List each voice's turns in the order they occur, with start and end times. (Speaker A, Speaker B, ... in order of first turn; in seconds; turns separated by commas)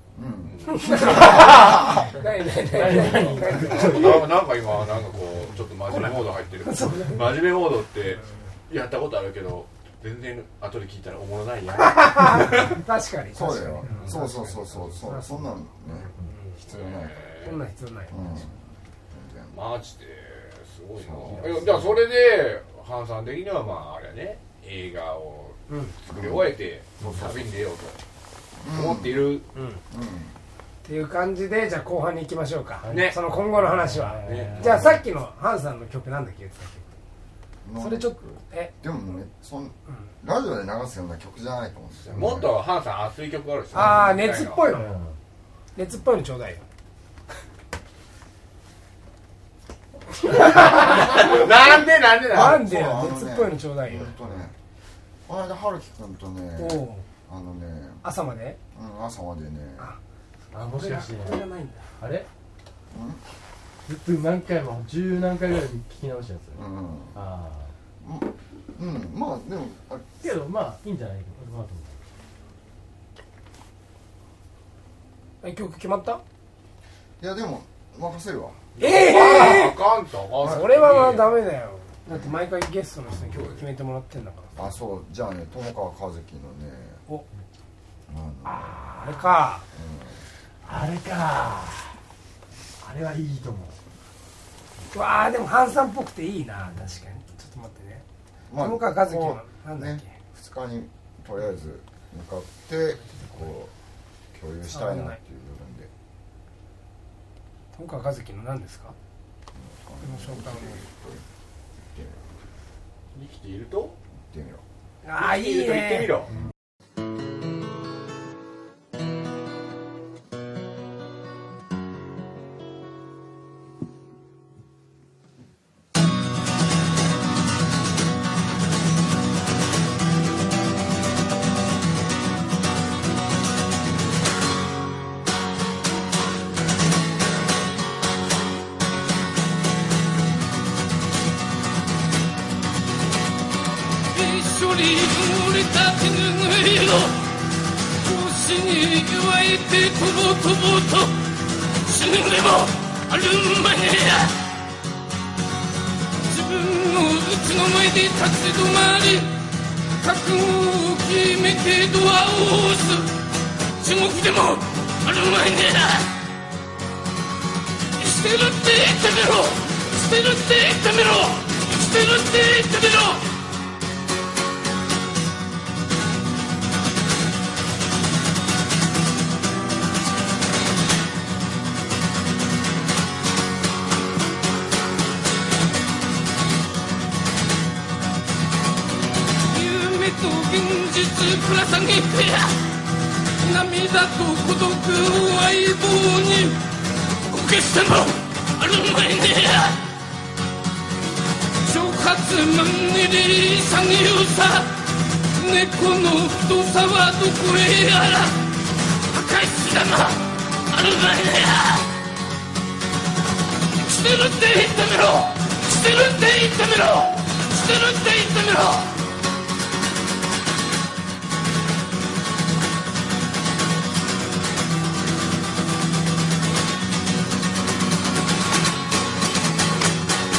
Speaker A: 0.1-0.8, Speaker B: 0.4-1.3, Speaker C: 0.7-4.3, Speaker D: 0.9-4.5, Speaker B: 3.0-12.8, Speaker C: 5.9-7.4, Speaker C: 11.8-16.6, Speaker A: 13.3-17.3, Speaker B: 13.9-14.1, Speaker B: 16.6-17.6, Speaker C: 17.4-18.5, Speaker A: 18.1-19.6, Speaker B: 19.5-28.0, Speaker A: 21.0-21.9, Speaker D: 21.4-21.9, Speaker C: 25.7-25.9, Speaker A: 26.1-27.5, Speaker A: 28.6-30.4, Speaker B: 28.7-29.5, Speaker D: 29.6-29.8, Speaker C: 30.8-37.0, Speaker D: 32.8-35.0, Speaker B: 34.2-35.0, Speaker A: 37.6-42.6, Speaker C: 37.8-38.7, Speaker B: 42.0-44.7, Speaker C: 43.7-44.9, Speaker D: 44.7-45.2, Speaker C: 45.8-46.6, Speaker C: 50.3-51.4, Speaker B: 50.3-52.7, Speaker C: 52.3-54.4, Speaker A: 52.3-54.6, Speaker A: 55.3-58.0, Speaker C: 56.6-57.0, Speaker C: 58.0-58.6, Speaker A: 58.7-60.0, Speaker D: 60.5-61.4, Speaker C: 60.7-61.9, Speaker D: 62.0-62.3, Speaker A: 62.9-63.2, Speaker D: 63.9-67.7, Speaker A: 66.5-67.2, Speaker A: 68.0-70.1, Speaker D: 70.2-72.0, Speaker C: 75.4-76.2, Speaker A: 77.2-78.7, Speaker B: 78.8-81.4, Speaker C: 78.8-79.8, Speaker C: 80.4-84.7, Speaker B: 83.1-83.6, Speaker A: 84.6-87.0, Speaker A: 88.1-88.9, Speaker C: 88.5-89.7, Speaker D: 88.7-89.3, Speaker A: 89.7-90.3, Speaker D: 90.6-92.0, Speaker D: 92.8-93.8, Speaker C: 94.9-98.0, Speaker A: 98.5-103.7, Speaker C: 98.6-100.2, Speaker C: 103.1-103.4, Speaker A: 104.3-105.9, Speaker C: 104.7-105.2, Speaker C: 107.7-109.0, Speaker A: 109.5-111.2, Speaker C: 110.0-110.8, Speaker A: 111.8-112.3, Speaker B: 113.1-114.0, Speaker A: 114.3-114.6, Speaker C: 115.0-116.2, Speaker B: 115.2-116.3, Speaker E: 144.1-147.3, Speaker E: 148.0-154.4, Speaker E: 156.3-159.3, Speaker E: 160.0-166.2, Speaker E: 168.0-173.3, Speaker E: 189.5-192.6, Speaker E: 193.4-196.6, Speaker E: 197.2-199.8, Speaker E: 201.6-211.9, Speaker E: 213.8-219.0